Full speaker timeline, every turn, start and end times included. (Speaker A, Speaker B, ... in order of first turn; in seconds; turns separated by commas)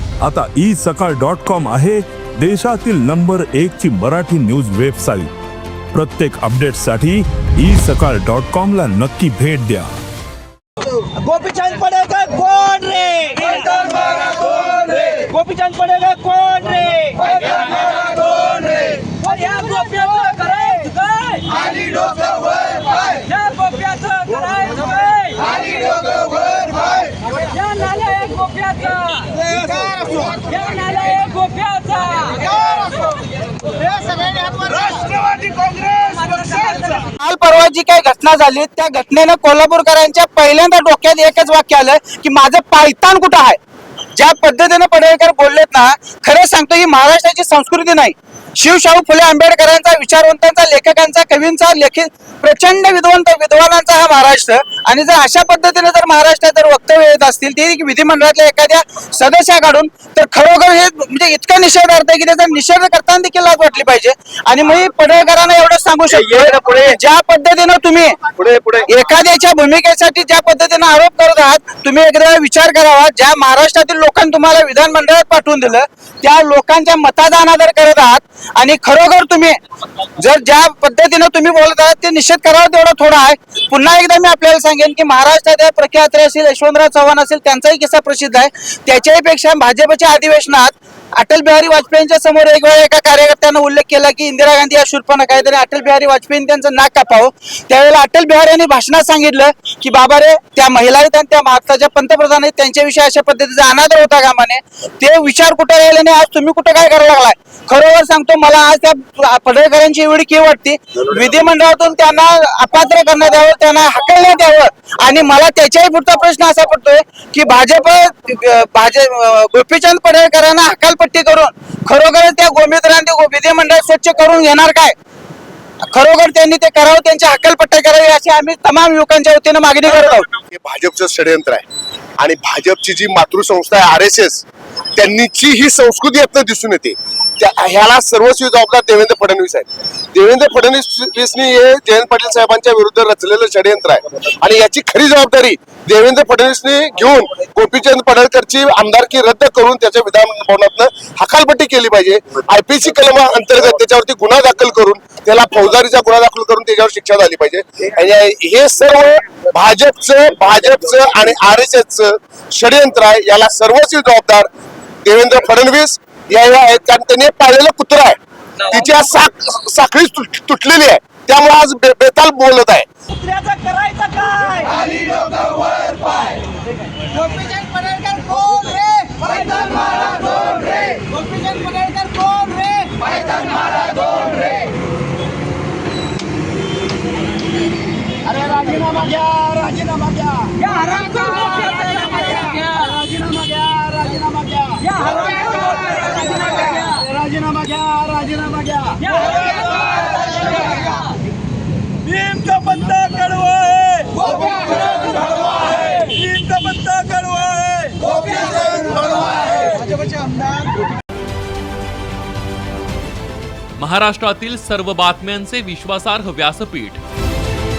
Speaker A: 0.2-5.3, Speaker A: 5.9-9.9, Speaker B: 11.1-32.8, Speaker B: 33.9-37.0, Speaker C: 37.0-43.6, Speaker C: 44.2-66.3, Speaker D: 66.1-67.0, Speaker C: 66.8-68.2, Speaker D: 68.3-68.9, Speaker C: 68.9-79.6, Speaker C: 80.2-124.9, Speaker C: 125.9-130.2, Speaker D: 129.9-131.6, Speaker D: 132.2-134.4, Speaker D: 134.9-164.5, Speaker D: 165.0-172.9, Speaker B: 173.1-176.4, Speaker B: 177.1-184.6, Speaker B: 188.2-199.7, Speaker B: 202.0-204.9, Speaker B: 205.8-209.1, Speaker B: 210.1-210.4, Speaker E: 213.8-217.0